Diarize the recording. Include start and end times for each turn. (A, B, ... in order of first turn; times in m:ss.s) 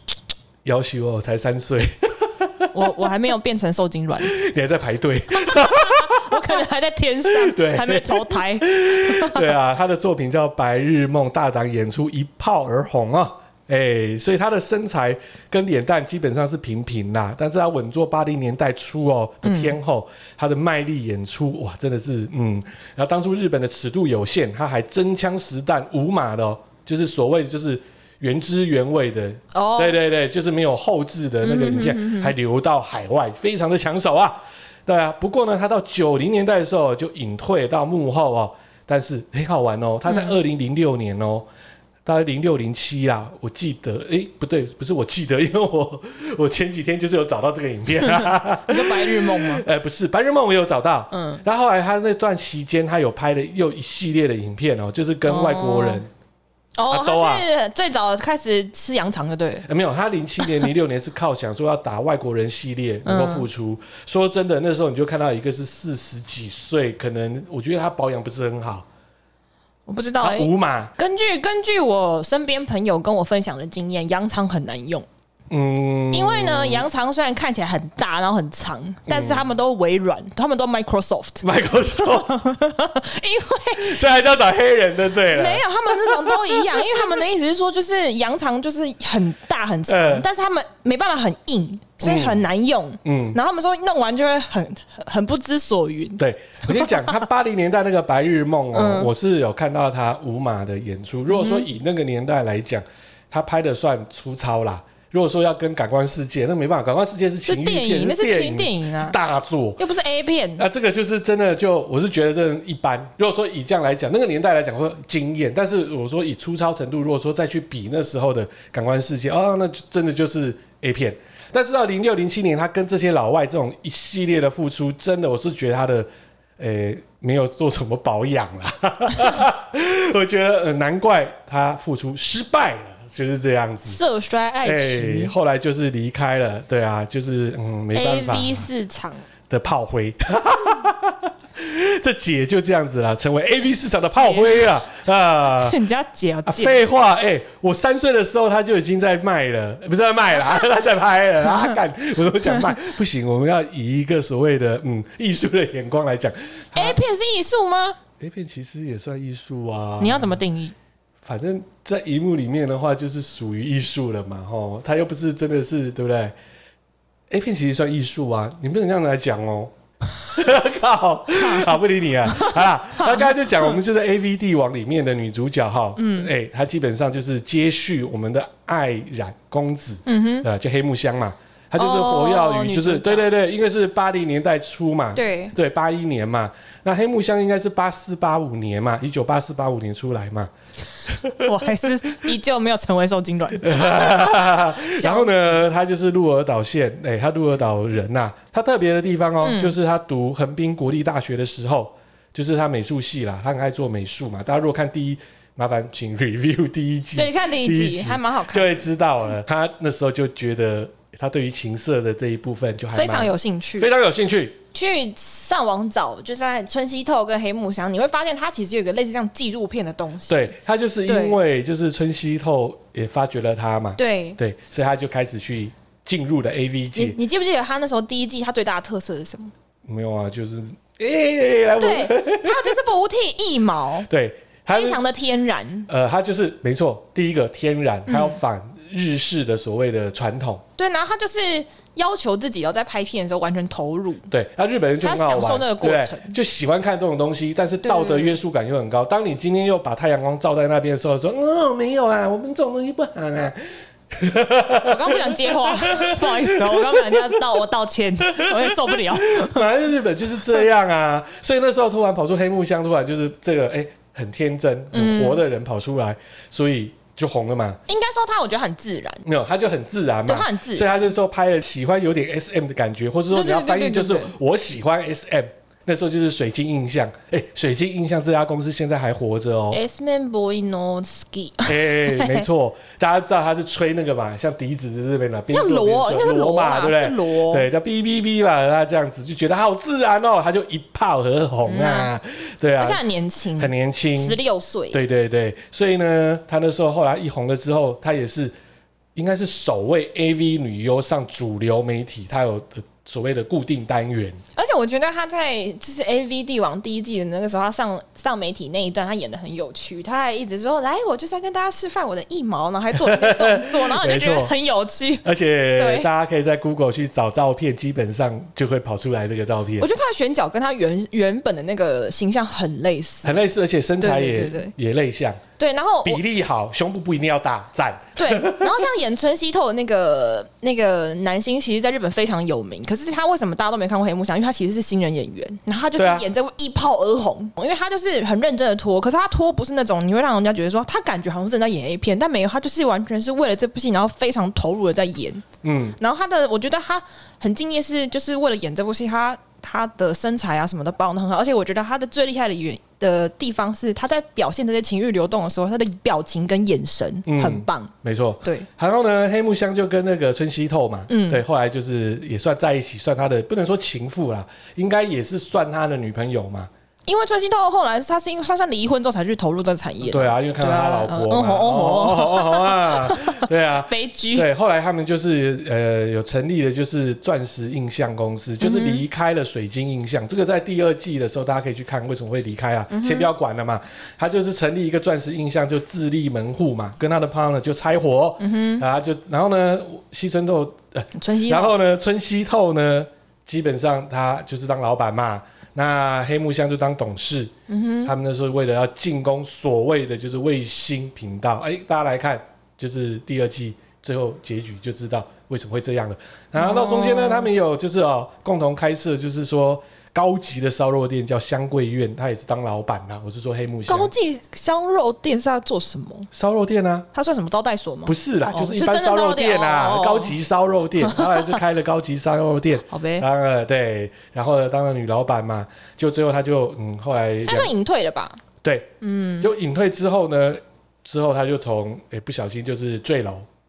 0:00.6-0:02.7 A
0:02.7-0:04.3 B
0:04.2-0:06.6 A
0:05.4-0:09.5 B
0:07.3-0:41.4 A
0:19.4-0:19.8 B
0:29.5-0:30.0 B
0:31.4-0:32.3 B
0:40.1-0:40.3 B
0:42.0-0:56.1 A
0:48.2-0:49.6 B
0:51.1-0:51.4 B
0:55.2-0:56.0 B
0:56.8-0:59.6 B
0:56.9-0:57.4 A
0:59.6-1:08.8 A
1:03.0-1:03.4 B
1:09.9-1:15.1 B
1:10.2-1:10.9 A
1:15.5-1:16.9 A
1:16.1-1:21.4 B
1:19.1-1:19.5 A
1:21.4-1:22.4 A
1:22.0-1:24.0 B
1:23.8-1:27.1 A
1:25.2-1:37.2 B
1:29.9-1:30.2 A
1:32.0-1:32.4 A
1:33.0-1:33.4 A
1:36.2-1:49.8 A
1:38.7-1:39.1 B
1:41.3-1:41.7 B
1:47.4-1:49.2 B
1:49.8-1:50.6 B
1:50.6-2:06.1 A
2:06.6-2:14.0 A
2:13.9-2:15.3 B
2:14.6-2:18.7 A
2:17.9-2:19.2 B
2:19.5-2:25.8 A
2:24.1-2:24.7 B
2:25.6-2:26.8 B
2:26.4-2:37.0 A
2:36.7-2:38.0 B
2:38.2-2:40.4 A
2:40.0-2:40.7 B
2:41.2-2:46.3 A
2:47.3-2:49.7 A
2:50.3-3:10.5 A
2:51.4-2:51.7 B
2:52.2-2:53.7 B
2:56.0-2:56.3 B
3:00.0-3:00.4 B
3:01.8-3:03.3 B
3:05.1-3:05.5 B
3:11.1-3:11.7 A
3:11.4-3:15.5 B
3:13.6-3:34.6 A
3:19.4-3:19.7 B
3:27.1-3:28.8 B
3:32.9-3:33.9 B
3:34.7-3:40.5 B
3:40.3-3:47.2 A
3:41.0-3:41.4 B
3:44.0-3:44.4 B
3:46.9-3:49.5 B
3:49.8-3:52.7 A
3:51.8-3:54.1 B
3:54.1-3:55.0 A
3:54.7-3:55.9 B
3:55.9-4:00.6 A
3:58.1-3:58.4 B
4:00.8-4:04.3 B
4:04.3-4:13.6 A
4:05.0-4:06.4 B
4:07.8-4:08.3 B
4:14.1-4:17.4 A
4:14.8-4:19.6 B
4:18.3-4:27.8 A
4:24.9-4:25.4 B
4:27.8-4:29.2 B
4:29.2-4:39.8 A
4:30.2-4:31.0 B
4:33.3-4:34.3 B
4:39.7-4:42.4 B
4:41.6-4:53.0 A
4:45.5-4:47.6 B
4:51.6-4:52.1 B
4:52.8-4:55.0 B
4:53.6-4:54.4 A
4:54.9-4:58.5 A
4:59.1-5:04.4 A
5:04.6-5:16.1 B
5:12.9-5:14.5 A
5:15.2-5:19.9 A
5:19.8-5:23.4 B
5:23.2-5:25.4 A
5:24.0-5:24.7 B
5:25.6-5:26.2 B
5:26.0-5:28.9 A
5:28.2-5:45.4 B
5:36.0-5:36.2 A
5:45.6-5:46.0 A
5:46.0-5:57.9 B
5:57.3-6:06.7 A
6:01.1-6:01.4 B
6:07.0-6:14.5 B
6:10.0-6:37.5 A
6:18.6-6:19.0 B
6:22.9-6:23.3 B
6:28.4-6:28.8 B
6:31.1-6:31.7 B
6:37.7-6:38.1 B
6:38.0-6:54.1 A
6:46.6-6:47.5 B
6:53.8-6:56.3 B
6:56.3-6:57.1 A
6:57.1-7:00.4 B
6:58.0-7:07.7 A
7:01.0-7:01.6 B
7:02.9-7:03.2 B
7:07.4-7:08.4 B
7:08.6-7:13.5 A
7:09.0-7:09.5 B